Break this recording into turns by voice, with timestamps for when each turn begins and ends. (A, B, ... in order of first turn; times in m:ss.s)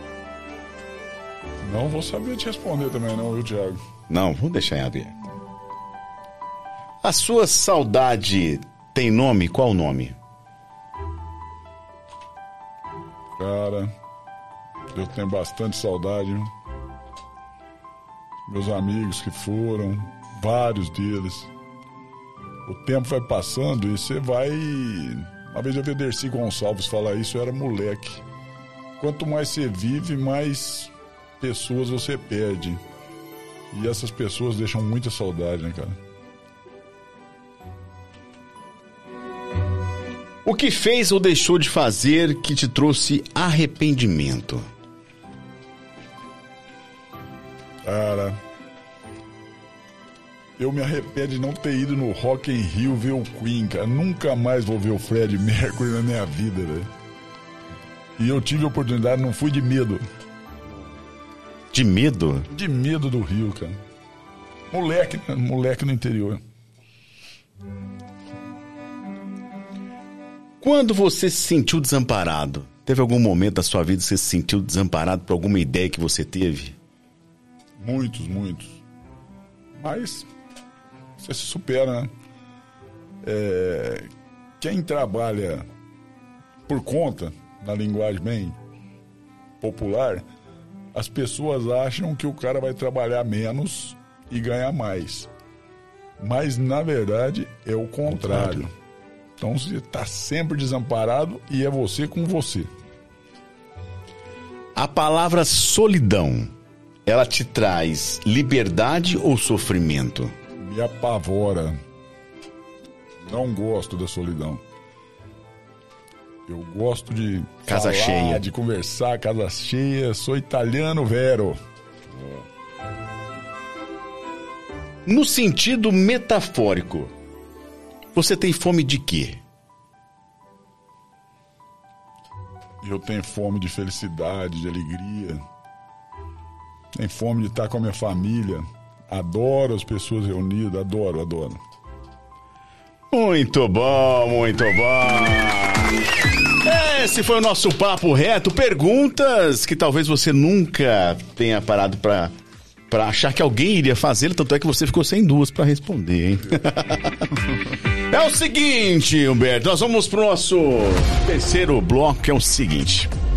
0:01.6-0:03.8 A
0:04.1-0:05.2 B
0:07.0-0:10.2 B
0:13.4-0:13.9 A
0:14.9-0:16.5 A
0:18.5-0:21.5 A
0:22.7-0:28.2 A
0:29.0-0:32.8 A
0:33.7-0:36.0 A
0:40.4-0:44.7 B
0:47.8-0:48.4 A
0:50.6-0:56.9 A
0:58.2-1:00.0 A
1:01.7-1:02.5 B
1:02.5-1:03.8 A
1:04.7-1:06.4 A
1:10.6-1:16.8 B
1:17.8-1:18.8 A
1:19.8-1:20.3 A
1:21.2-1:22.1 A
1:23.2-1:24.1 A
1:24.6-1:25.7 A
1:26.7-1:28.6 A
1:29.6-1:30.3 A
1:30.9-1:35.3 A
1:36.2-1:38.7 A
1:38.1-1:38.7 B
1:39.4-1:42.7 A
1:44.8-1:46.5 B
1:47.1-1:50.3 B
1:50.6-1:51.8 A
1:53.3-1:54.6 A
1:56.5-2:02.5 A
1:57.7-1:58.4 B
2:05.1-2:07.1 B
2:08.1-2:09.4 B
2:12.8-2:15.4 A
2:16.9-2:21.6 A
2:23.1-2:26.0 B
2:26.6-2:32.3 B
2:32.9-2:37.4 B
2:38.1-2:43.1 B